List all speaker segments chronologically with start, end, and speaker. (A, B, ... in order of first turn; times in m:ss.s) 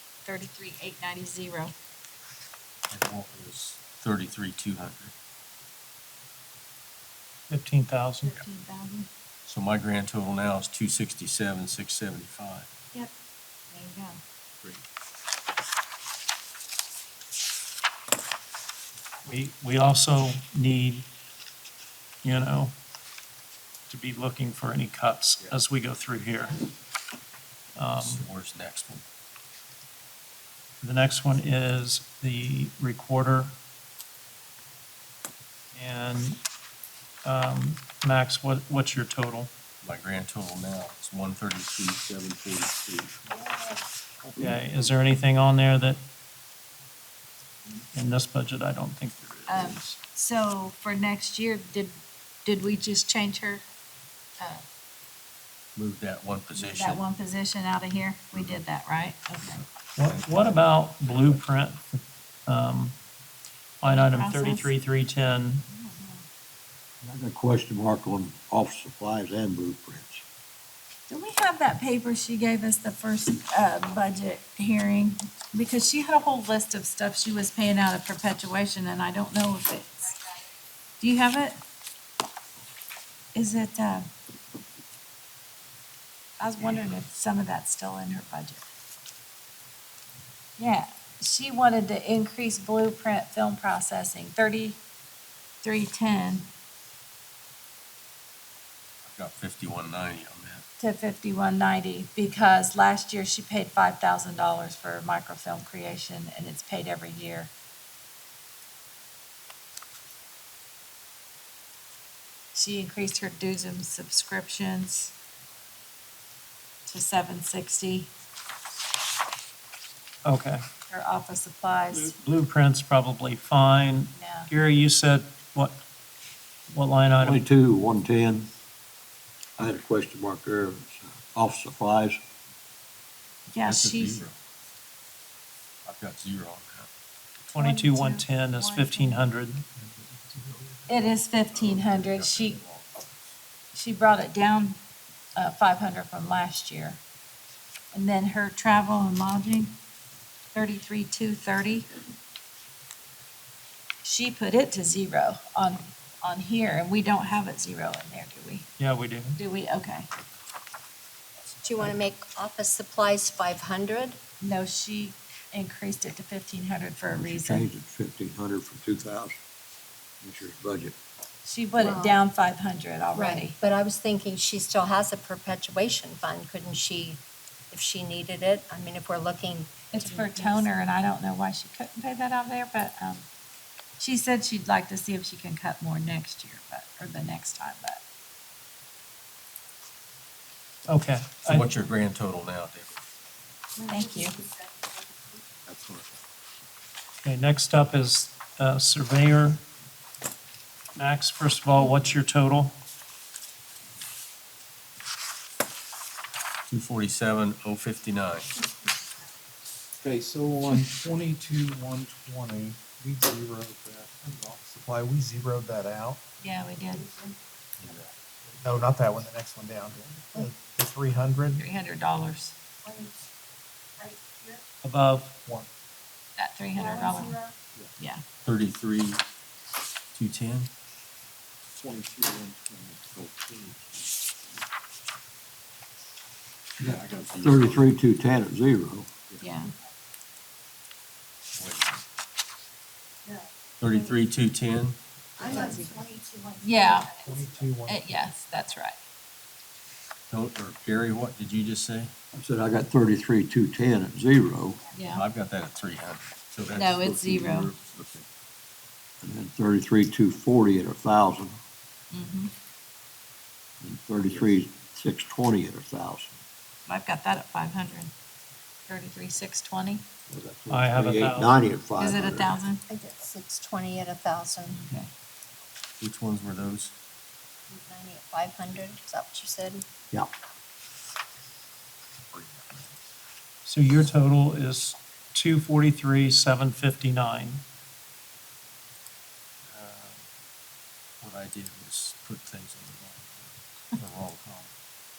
0:00.2-0:01.7 A
0:02.9-0:05.1 B
0:07.5-0:08.4 C
0:08.2-0:09.1 A
0:09.5-0:12.7 B
0:13.7-0:14.2 A
0:19.3-0:21.1 C
0:22.2-0:22.8 C
0:23.9-0:26.6 C
0:27.8-0:28.2 C
0:28.0-0:29.0 B
0:30.8-0:33.6 C
0:35.7-0:36.4 C
0:37.2-0:39.5 C
0:39.8-0:43.2 B
0:44.4-0:46.0 C
0:47.9-0:50.0 C
0:49.5-0:53.6 A
0:55.8-0:57.0 B
0:56.6-0:59.6 A
0:58.3-0:58.6 B
0:59.4-1:00.6 B
1:00.0-1:01.9 C
1:02.5-1:03.0 C
1:03.8-1:05.6 C
1:03.9-1:04.7 A
1:05.7-1:06.2 A
1:07.0-1:10.2 D
1:11.1-1:20.2 A
1:21.0-1:21.6 A
1:23.4-1:24.1 A
1:26.4-1:28.6 A
1:30.6-1:34.8 A
1:35.6-1:36.5 A
1:39.0-1:40.6 B
1:40.8-1:47.5 A
1:52.5-1:55.1 A
1:56.9-1:58.1 A
2:00.2-2:00.6 C
2:00.9-2:02.2 A
2:01.9-2:05.8 C
2:04.2-2:04.5 A
2:06.7-2:07.4 C
2:07.2-2:08.5 D
2:09.6-2:12.2 D
2:13.5-2:14.2 A
2:13.6-2:14.4 B
2:15.8-2:16.9 B
2:17.5-2:19.7 C
2:17.6-2:19.2 A
2:20.9-2:22.6 A
2:21.5-2:23.1 B
2:23.7-2:24.8 A
2:25.4-2:27.0 A
2:27.9-2:29.8 A
2:30.5-2:31.9 A
2:34.0-2:38.7 A
2:38.8-2:39.4 C
2:39.4-2:40.1 A
2:41.6-2:44.2 E
2:44.4-2:47.7 A
2:47.2-2:49.4 D
2:50.2-2:51.0 D
2:51.4-2:53.6 A
2:51.8-2:52.2 E
2:53.1-3:00.7 E
2:59.9-3:03.3 A
3:04.0-3:08.0 A
3:10.9-3:11.7 C
3:11.4-3:13.0 B
3:13.9-3:14.4 A
3:15.7-3:16.2 B
3:17.2-3:19.6 C
3:21.0-3:22.8 C
3:26.7-3:28.5 B
3:30.0-3:36.2 F
3:36.4-3:37.1 A
3:38.5-3:41.6 F
3:41.6-3:42.6 A
3:44.0-3:44.5 E
3:44.8-3:45.4 C
3:46.4-3:47.4 A
3:48.0-3:48.2 A
3:48.4-3:49.2 B
3:50.2-3:50.7 B
3:51.8-3:53.7 F
3:56.8-3:57.9 B
3:56.8-3:59.1 D
3:59.4-3:59.7 A
4:01.5-4:02.0 B
4:03.8-4:05.0 B
4:05.4-4:06.6 E
4:06.6-4:07.1 A
4:07.2-4:08.1 F
4:07.9-4:09.0 A
4:10.3-4:12.1 B
4:12.3-4:14.8 D
4:14.9-4:15.2 A
4:15.1-4:18.2 B
4:16.7-4:17.7 A
4:19.2-4:21.6 D
4:22.1-4:22.5 A
4:23.8-4:26.4 D
4:26.9-4:28.1 A
4:28.9-4:30.0 A
4:30.3-4:32.6 D
4:30.7-4:31.6 C
4:32.0-4:32.8 A
4:32.9-4:34.8 E
4:34.7-4:35.1 A
4:36.0-4:36.9 B
4:37.7-4:39.8 E
4:43.6-4:47.6 C
4:49.7-4:50.2 B
4:51.2-4:54.7 B